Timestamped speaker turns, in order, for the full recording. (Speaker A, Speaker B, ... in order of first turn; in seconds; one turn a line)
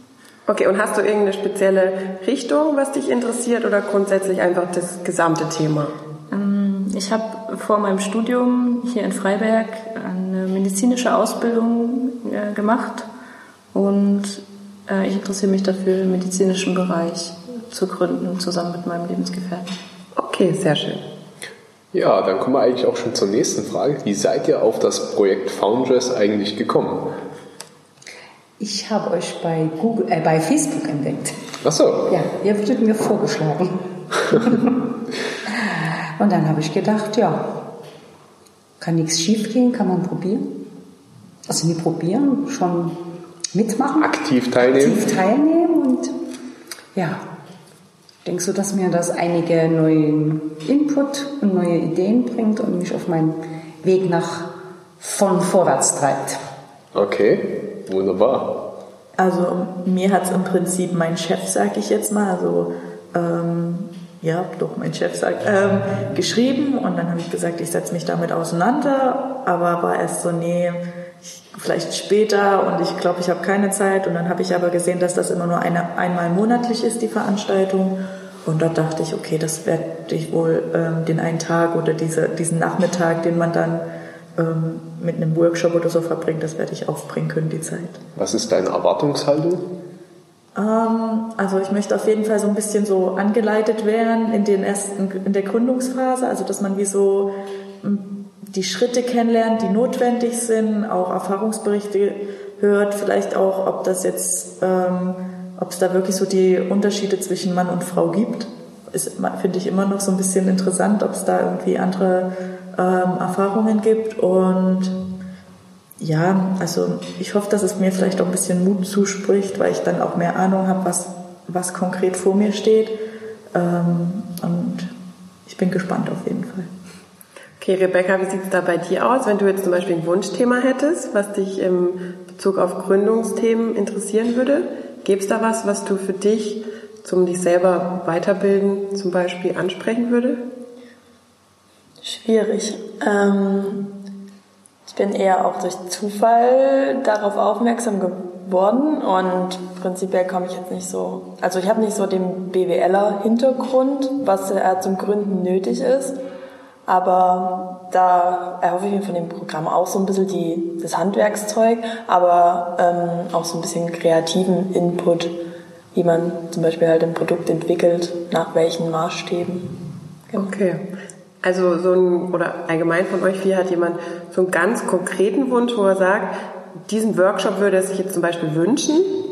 Speaker A: 0.5-5.9
Speaker B: 6.3-13.1
Speaker B: 13.7-19.7
Speaker A: 20.1-21.0
Speaker C: 21.9-27.1
Speaker D: 28.6-31.3
Speaker C: 31.6-32.2
Speaker D: 32.1-33.8
Speaker D: 36.2-37.7
Speaker D: 38.8-40.7
Speaker D: 41.5-46.1
Speaker C: 44.0-45.1
Speaker D: 46.9-47.2
Speaker D: 48.2-56.4
Speaker C: 56.9-58.7
Speaker E: 59.2-83.8
Speaker E: 84.4-88.0
Speaker C: 88.2-89.7
Speaker E: 90.5-114.9
Speaker E: 116.0-123.0
Speaker E: 123.5-124.9
Speaker E: 125.5-126.7
Speaker A: 127.6-140.4
Speaker F: 142.0-144.0
Speaker F: 144.9-156.2
Speaker F: 156.9-165.4
Speaker F: 165.9-169.7
Speaker A: 170.3-170.9
Speaker A: 171.4-176.3
Speaker A: 176.8-179.1